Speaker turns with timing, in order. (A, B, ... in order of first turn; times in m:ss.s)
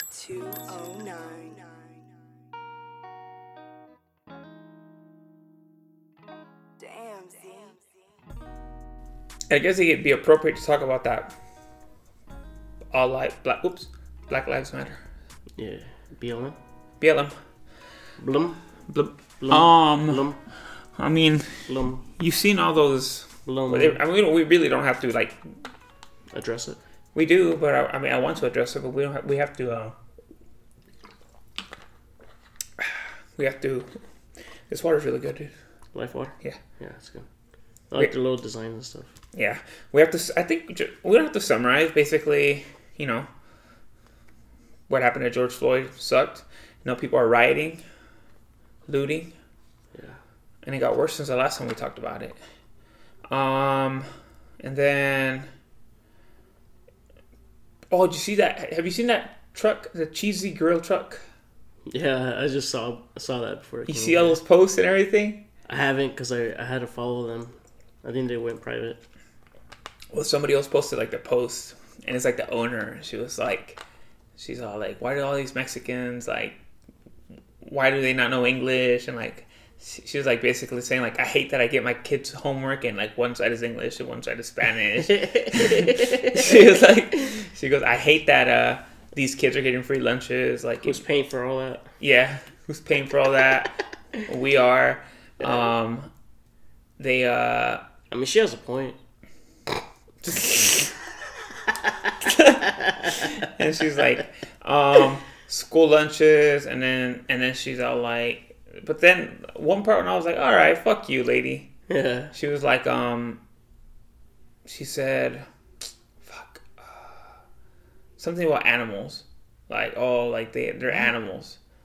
0:00.1-0:01.9 A
0:06.8-0:07.9 A
0:09.5-0:11.3 B
0:12.9-0:15.0 B
0:15.6-0:16.6 C
0:17.0-0:17.3 B
0:18.2-0:18.6 C
0:18.9-0:20.3 B
0:19.4-0:20.4 C
0:21.0-0:25.4 B
0:21.7-0:22.0 C
0:23.4-0:24.0 C
0:26.3-0:26.8 C
0:27.1-0:30.0 B
0:32.8-0:33.9 B
0:34.7-0:35.5 B
0:35.9-0:37.3 C
0:37.9-0:39.1 C
0:39.3-0:43.3 B
0:44.9-0:47.8 B
0:48.9-0:49.3 B
0:49.9-0:50.2 C
0:50.6-0:52.4 B
0:53.3-0:54.1 B
0:54.6-0:55.5 B
0:57.9-1:01.2 B
1:01.9-1:04.4 C
1:03.9-1:05.4 B
1:05.7-1:09.0 C
1:10.1-1:13.8 B
1:14.4-1:16.6 B
1:17.6-1:31.0 B
1:25.0-1:26.8 C
1:30.8-1:31.9 C
1:32.0-1:36.1 B
1:37.0-1:37.8 B
1:38.1-1:39.0 C
1:40.2-1:40.9 B
1:42.2-1:51.7 B
1:42.6-1:43.1 C
1:51.9-1:52.3 C
1:52.3-1:53.4 B
1:54.6-1:55.5 B
1:56.2-1:57.3 B
1:58.2-2:01.6 B